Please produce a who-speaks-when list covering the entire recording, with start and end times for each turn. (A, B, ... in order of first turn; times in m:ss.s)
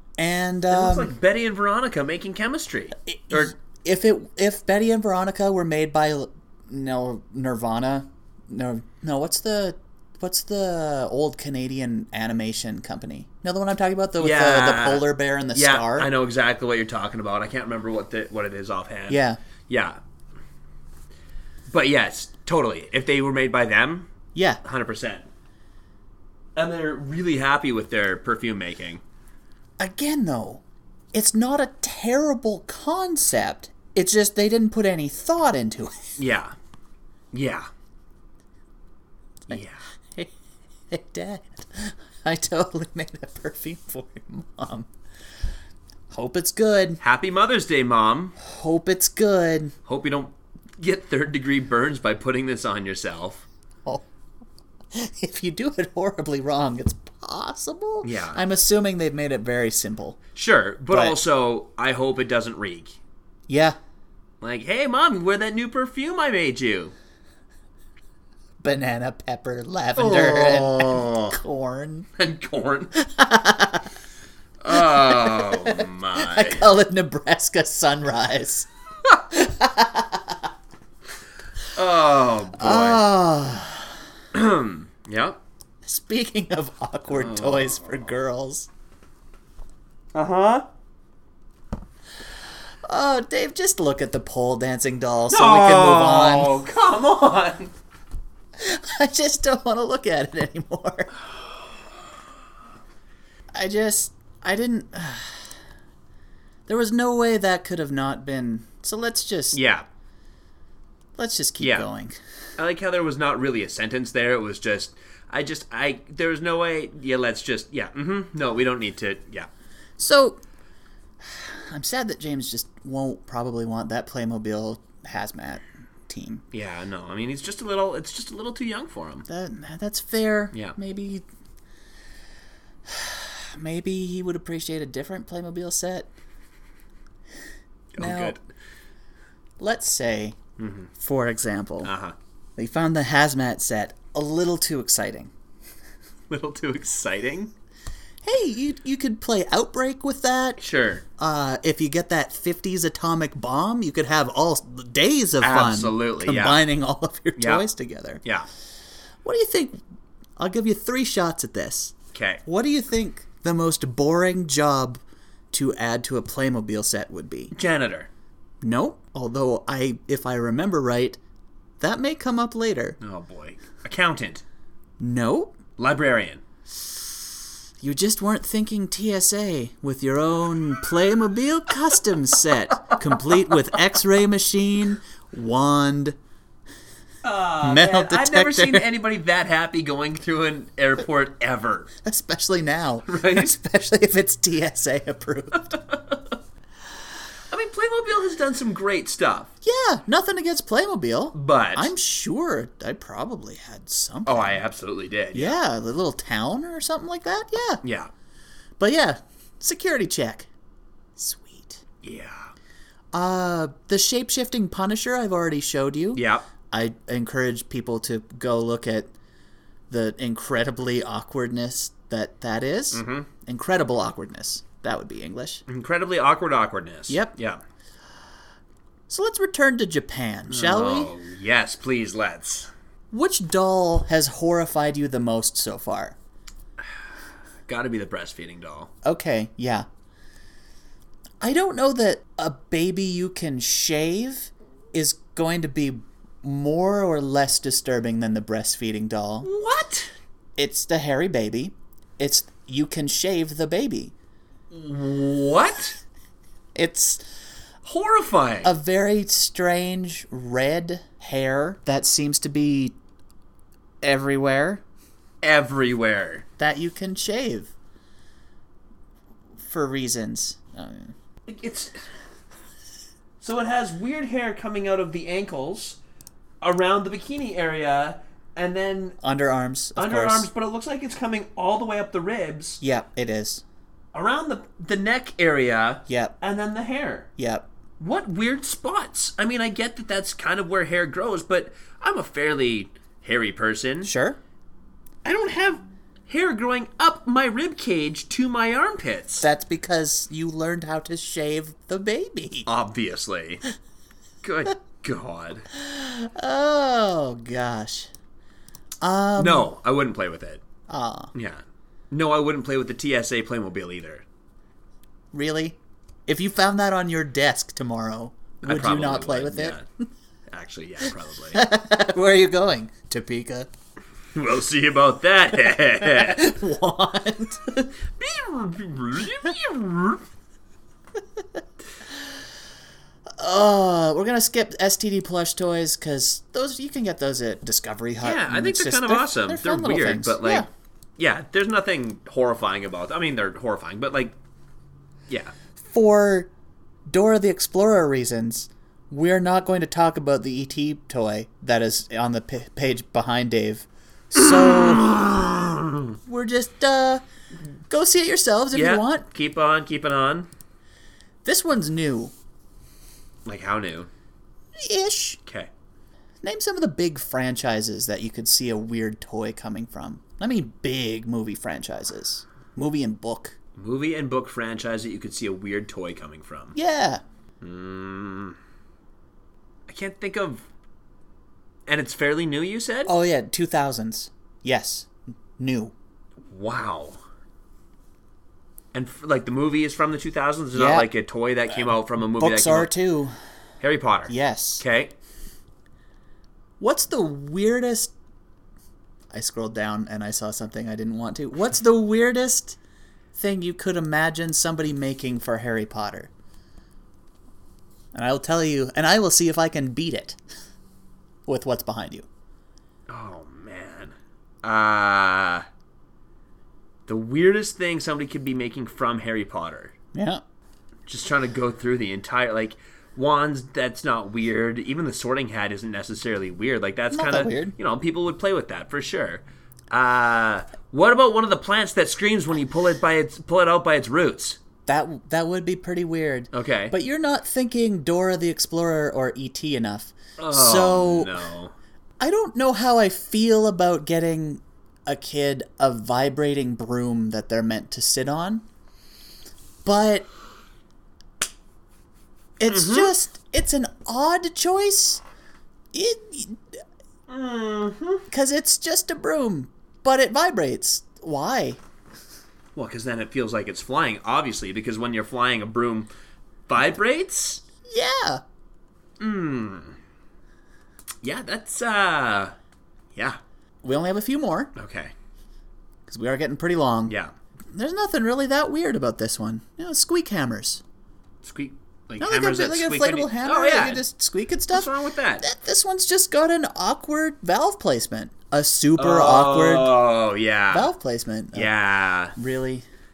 0:00.2-0:01.1 A
0:00.7-0:03.0 B
0:03.1-0:16.1 A
0:14.2-0:20.0 B
0:19.1-0:19.4 A
0:21.7-0:24.1 B
0:24.3-0:24.6 A
0:24.6-0:25.2 B
0:26.6-0:29.0 B
0:29.8-0:36.0 A
0:36.2-0:36.5 B
0:37.3-0:37.7 B
0:39.5-0:39.8 B
0:40.9-0:44.9 A
0:46.1-0:47.0 A
0:47.0-0:48.4 B
0:48.4-0:49.7 A
0:49.8-0:53.4 B
0:54.9-1:00.2 A
0:58.0-0:58.4 B
1:00.3-1:03.0 B
1:00.9-1:01.2 A
1:03.5-1:03.8 A
1:04.4-1:06.9 B
1:08.6-1:12.1 A
1:10.0-1:11.4 B
1:12.2-1:12.9 B
1:13.0-1:13.9 A
1:14.6-1:16.7 B
1:14.7-1:18.7 A
1:19.3-1:20.4 A
1:21.7-1:23.0 B
1:22.6-1:23.9 A
1:24.3-1:25.4 B
1:25.8-1:28.7 A
1:27.1-1:28.0 B
1:30.1-1:30.6 B
1:32.8-1:36.6 A
1:35.3-1:37.7 B
1:38.6-1:41.1 A
1:43.5-1:45.5 A
1:46.7-1:49.6 A
1:49.5-1:49.8 B
1:51.2-1:52.2 A
1:51.6-1:51.9 B
1:52.6-1:59.5 B
2:00.0-2:00.4 A
2:01.2-2:06.4 A
2:06.5-2:09.3 B
2:09.3-2:11.2 A
2:12.8-2:16.1 A
2:17.9-2:18.4 B
2:18.0-2:18.4 A
2:19.6-2:20.4 A
2:20.6-2:20.9 B
2:20.9-2:21.9 A
2:21.8-2:22.1 B
2:22.6-2:25.3 A
2:26.3-2:27.5 B
2:28.2-2:30.6 A
2:30.6-2:31.0 B
2:31.2-2:38.2 A
2:35.4-2:36.6 B
2:37.4-2:37.6 B
2:39.2-2:39.8 A
2:40.4-2:41.9 A
2:42.1-2:42.4 B
2:42.4-2:45.0 A
2:45.5-2:47.5 A
2:47.5-2:48.1 B
2:48.6-2:51.2 A
2:51.8-2:53.0 A
2:53.0-2:54.4 B
2:55.0-2:55.6 A
2:55.8-2:56.4 B
2:57.8-3:06.2 A
3:02.9-3:03.3 B
3:07.2-3:11.9 B
3:07.6-3:08.9 A
3:12.0-3:15.8 A
3:13.1-3:13.5 B
3:15.7-3:16.3 B
3:17.5-3:19.5 B
3:19.6-3:24.6 A
3:21.3-3:21.9 B
3:24.2-3:25.6 B
3:25.3-3:27.8 A
3:27.8-3:28.1 B
3:28.8-3:30.5 A
3:31.2-3:31.8 A
3:32.0-3:32.5 B
3:33.1-3:39.1 A
3:36.1-3:36.5 B
3:39.9-3:45.6 A
3:42.9-3:43.3 B
3:45.7-3:47.6 B
3:47.1-3:47.3 A
3:49.1-3:51.1 A
3:50.5-3:52.7 B
3:53.1-3:56.2 A
3:57.7-3:58.9 B
3:59.0-3:59.8 A
4:01.4-4:09.5 A
4:09.4-4:10.1 B
4:10.6-4:14.1 A
4:14.7-4:16.0 B
4:16.7-4:17.2 A
4:17.8-4:18.7 B
4:18.6-4:23.0 A
4:24.0-4:24.8 A
4:25.4-4:26.4 B
4:26.6-4:27.7 A
4:29.6-4:31.1 A
4:31.5-4:32.0 B
4:33.4-4:36.0 B
4:36.6-4:39.2 B
4:39.2-4:40.5 A
4:40.0-4:42.8 B
4:42.8-4:43.6 A
4:44.1-4:47.3 B
4:46.1-4:46.3 A
4:47.4-4:47.7 A
4:48.0-4:54.1 B
4:54.0-4:54.4 A
4:55.2-4:59.5 B
4:59.4-5:02.7 A
5:02.6-5:03.6 B
5:04.4-5:05.7 B
5:05.7-5:08.1 A
5:09.0-5:09.7 A
5:09.4-5:10.6 B
5:10.9-5:11.3 A
5:11.3-5:14.2 B
5:15.3-5:19.8 A
5:18.6-5:19.8 B
5:20.5-5:21.6 B
5:21.5-5:23.7 A
5:24.3-5:26.4 B
5:25.8-5:27.9 A
5:28.1-5:30.2 B
5:33.4-5:40.6 A
5:38.2-5:40.7 B
5:41.2-5:44.4 B
5:45.3-5:45.5 B
5:45.8-5:46.5 A
5:47.1-5:55.1 A
5:54.4-5:56.1 B
5:56.2-5:57.2 A
5:57.9-5:59.2 A
5:58.7-6:00.5 B
6:01.4-6:02.3 A
6:03.4-6:04.1 B
6:04.8-6:05.4 A
6:05.4-6:05.7 B
6:06.4-6:13.6 A
6:13.8-6:16.8 B
6:16.7-6:17.2 A
6:17.6-6:18.6 B
6:19.9-6:20.6 B
6:21.9-6:23.1 B
6:23.0-6:25.9 A
6:26.5-6:27.2 B
6:28.9-6:32.9 B
6:30.7-6:31.1 A
6:32.3-6:33.3 A
6:33.8-6:35.1 B
6:34.3-6:34.8 A
6:36.8-6:38.1 A
6:39.3-6:42.8 A
6:43.3-6:46.3 A
6:48.1-6:50.4 A
6:51.4-6:52.3 A
6:53.1-6:55.6 B
6:57.1-6:59.9 B
7:00.1-7:00.4 A
7:01.1-7:14.6 B
7:07.1-7:07.7 A
7:14.8-7:21.3 A
7:16.5-7:16.9 B
7:20.4-7:21.7 B
7:22.2-7:28.6 A
7:29.8-7:30.3 A
7:32.6-7:35.2 A
7:32.7-7:33.1 B
7:35.9-7:36.6 A
7:37.3-7:38.2 B
7:38.3-7:41.8 A
7:42.7-7:46.1 B
7:46.7-7:47.6 B
7:47.9-7:48.4 A
7:49.2-7:50.0 B
7:51.2-7:52.6 B
7:53.8-7:54.7 A
7:54.7-7:55.1 B
7:56.1-7:57.2 A
7:57.1-7:57.3 B
7:57.7-8:00.8 A
8:01.4-8:04.0 B
8:02.2-8:09.9 A
8:04.7-8:05.5 B
8:09.0-8:10.9 B
8:10.7-8:11.7 A
8:11.5-8:12.4 B
8:12.4-8:12.8 A